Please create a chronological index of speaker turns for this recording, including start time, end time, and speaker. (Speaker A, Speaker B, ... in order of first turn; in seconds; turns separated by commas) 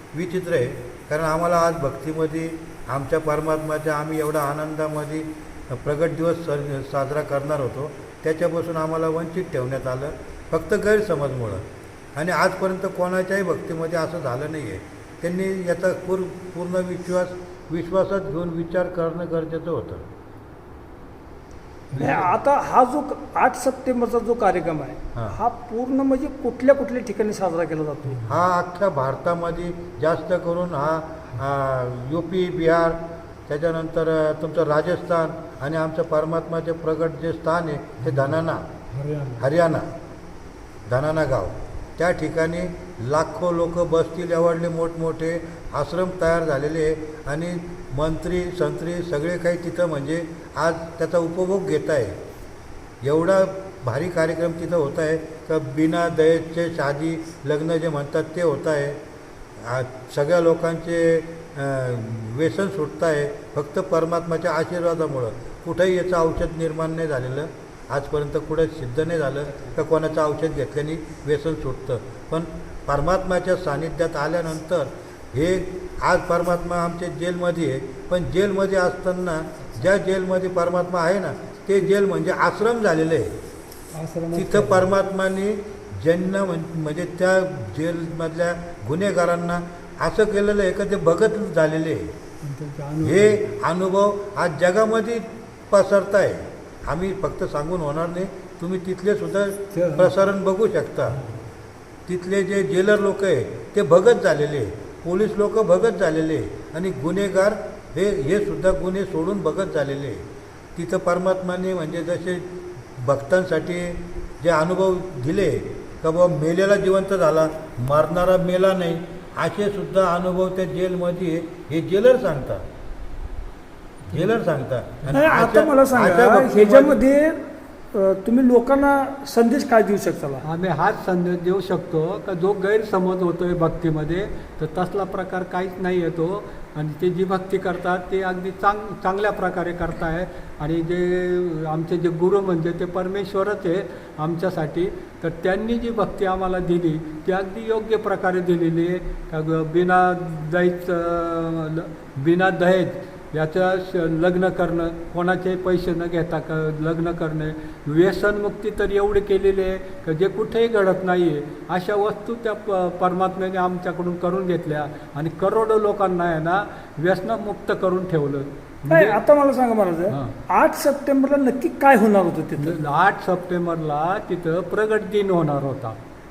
Speaker A: 0.1-11.6, Speaker A: 12.2-20.1, Speaker A: 21.9-22.2, Speaker B: 21.9-22.3, Speaker C: 22.0-28.2, Speaker A: 28.2-38.6, Speaker B: 38.9-39.5, Speaker A: 39.4-39.9, Speaker A: 40.9-52.2, Speaker A: 53.0-59.0, Speaker A: 59.6-83.3, Speaker B: 83.9-84.9, Speaker A: 84.3-92.1, Speaker B: 92.4-93.4, Speaker A: 93.0-101.2, Speaker B: 99.7-100.1, Speaker A: 102.1-110.2, Speaker A: 110.8-122.6, Speaker A: 124.1-127.0, Speaker B: 125.0-125.3, Speaker C: 125.1-127.4, Speaker C: 127.9-130.4, Speaker B: 130.4-169.2, Speaker C: 168.9-172.8, Speaker B: 170.1-170.4, Speaker B: 172.6-176.0